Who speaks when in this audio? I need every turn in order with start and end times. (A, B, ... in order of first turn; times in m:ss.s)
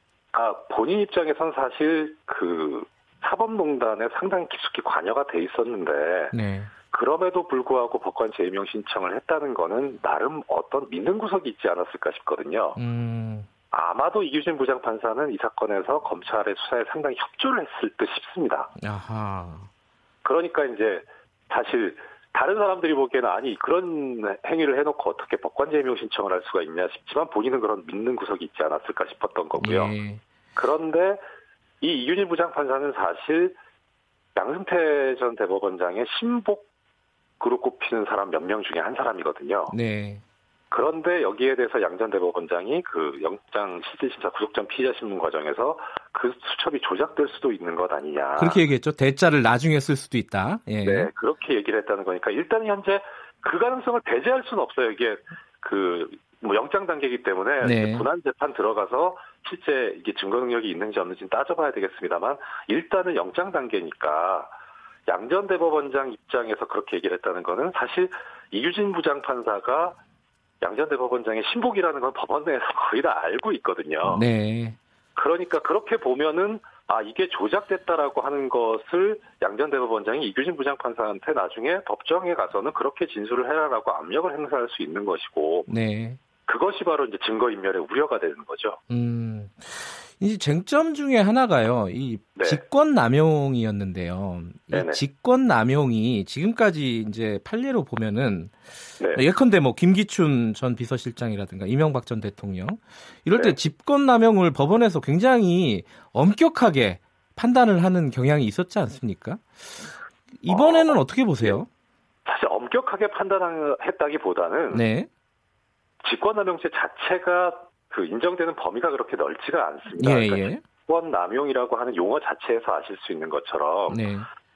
0:00.3-0:06.3 A
0:06.3-0:06.7 B
0:06.9-0:12.8 A
0:12.8-0:13.5 B
0:13.7-0:18.7 A
0:18.8-0:19.7 B
0:20.2-0:29.9 A
0:29.6-0:30.2 B
0:30.6-0:31.2 A
0:31.8-0:33.6 A
0:34.3-0:36.7 A
0:37.4-0:39.8 A
0:39.7-0:40.2 B
0:40.7-0:48.6 A
0:48.4-0:51.1 B
0:50.8-1:04.5 A
0:57.6-0:58.1 B
1:05.1-1:10.0 A
1:10.6-1:14.2 A
1:14.0-1:14.8 B
1:15.2-1:25.7 A
1:25.7-1:26.2 B
1:26.5-1:28.8 A
1:28.9-1:38.5 B
1:32.4-1:32.6 A
1:34.7-1:35.0 A
1:39.1-1:49.4 B
1:50.4-1:51.7 B
1:50.5-1:51.6 A
1:52.2-1:54.8 A
1:54.7-1:55.1 B
1:56.0-2:04.0 A
2:00.0-2:00.6 B
2:03.9-2:04.2 B